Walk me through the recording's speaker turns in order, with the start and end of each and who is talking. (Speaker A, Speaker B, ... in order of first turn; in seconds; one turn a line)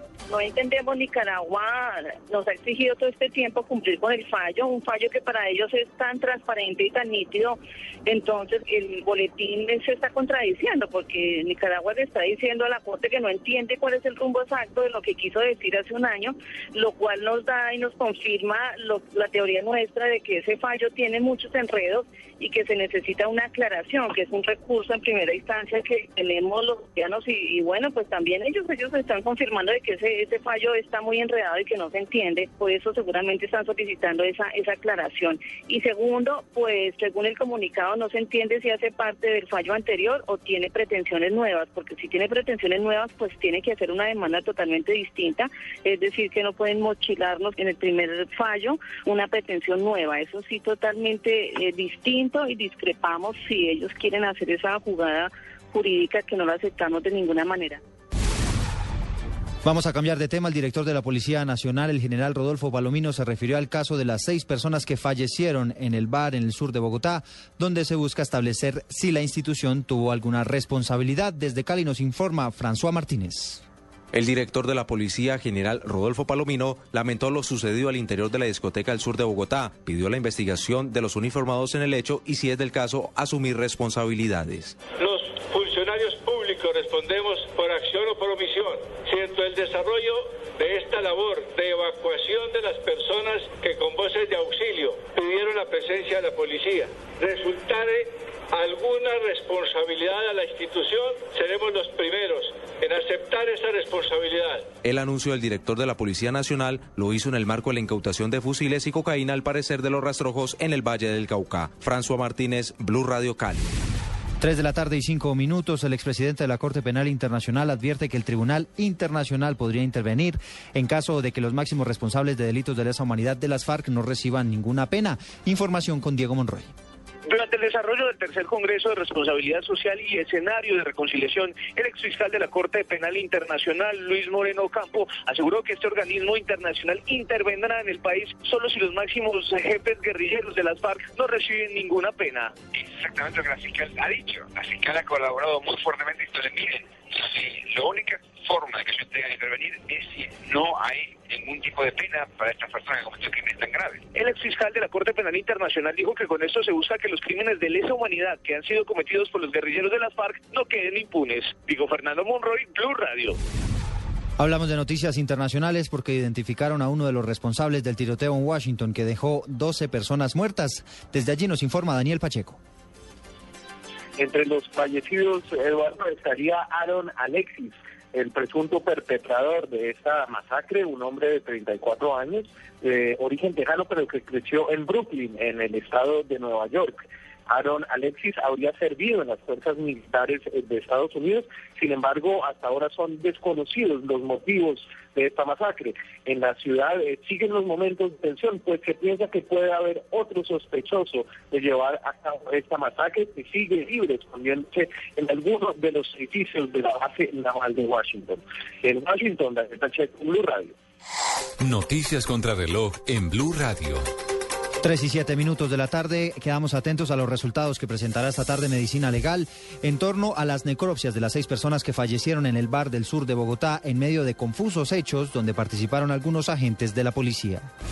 Speaker A: 0.3-57.8
Speaker B: 59.6-73.6
Speaker C: 74.1-84.7
Speaker D: 85.0-104.7
Speaker C: 104.8-113.7
Speaker B: 114.4-126.7
Speaker E: 127.3-142.6
Speaker F: 142.8-154.0
Speaker E: 154.1-163.4
Speaker B: 164.4-172.6
Speaker G: 174.2-187.0
Speaker G: 187.5-210.7
Speaker H: 211.6-214.1
Speaker B: 214.8-227.7